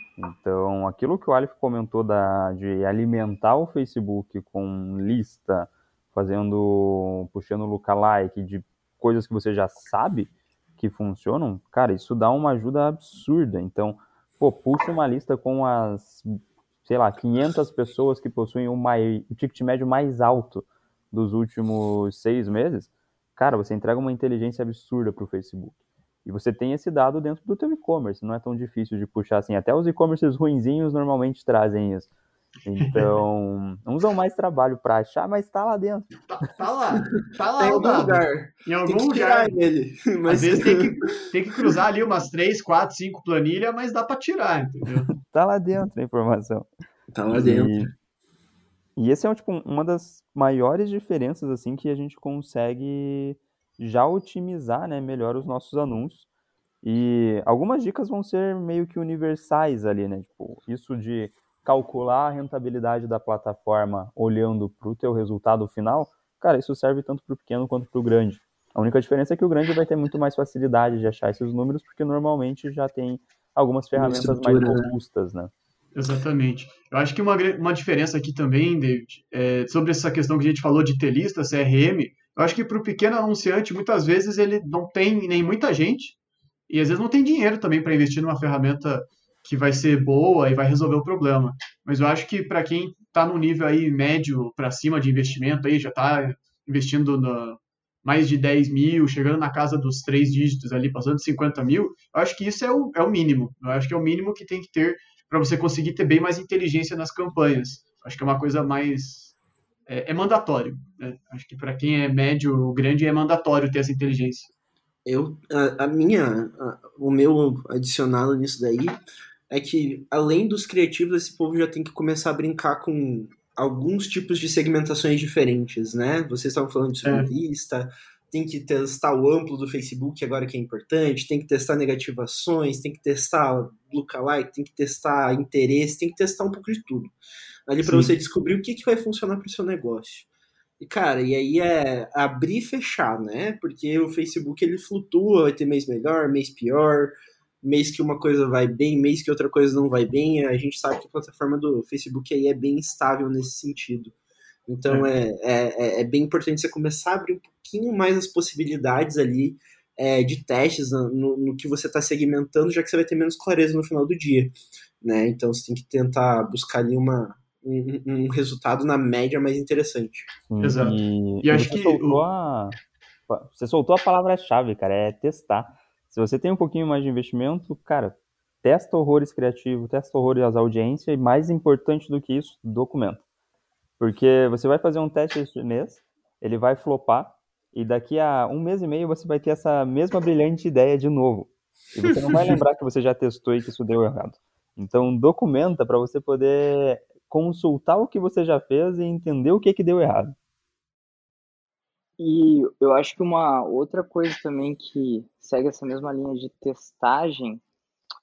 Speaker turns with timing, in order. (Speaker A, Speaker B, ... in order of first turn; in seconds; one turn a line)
Speaker A: 0.2-32.1
Speaker A: 32.6-36.1
Speaker B: 32.8-33.2
Speaker B: 36.3-39.6
Speaker C: 37.6-41.1
Speaker B: 40.3-45.1
Speaker A: 45.1-46.7
Speaker C: 47.1-47.9
Speaker A: 47.3-47.9
Speaker A: 49.0-56.2
Speaker A: 56.8-75.5
Speaker C: 73.9-74.9
Speaker B: 75.9-86.1
Speaker B: 86.7-109.3
Speaker B: 109.9-114.5
Speaker C: 115.0-119.0
Speaker C: 119.5-137.1
Speaker C: 137.7-140.3
Speaker B: 137.8-138.1
Speaker C: 140.8-154.1
Speaker C: 154.7-170.3
Speaker A: 170.5-172.8
Speaker B: 170.6-172.2
Speaker A: 173.3-183.2
Speaker A: 184.0-200.3
Speaker C: 192.0-192.6
Speaker D: 202.2-207.6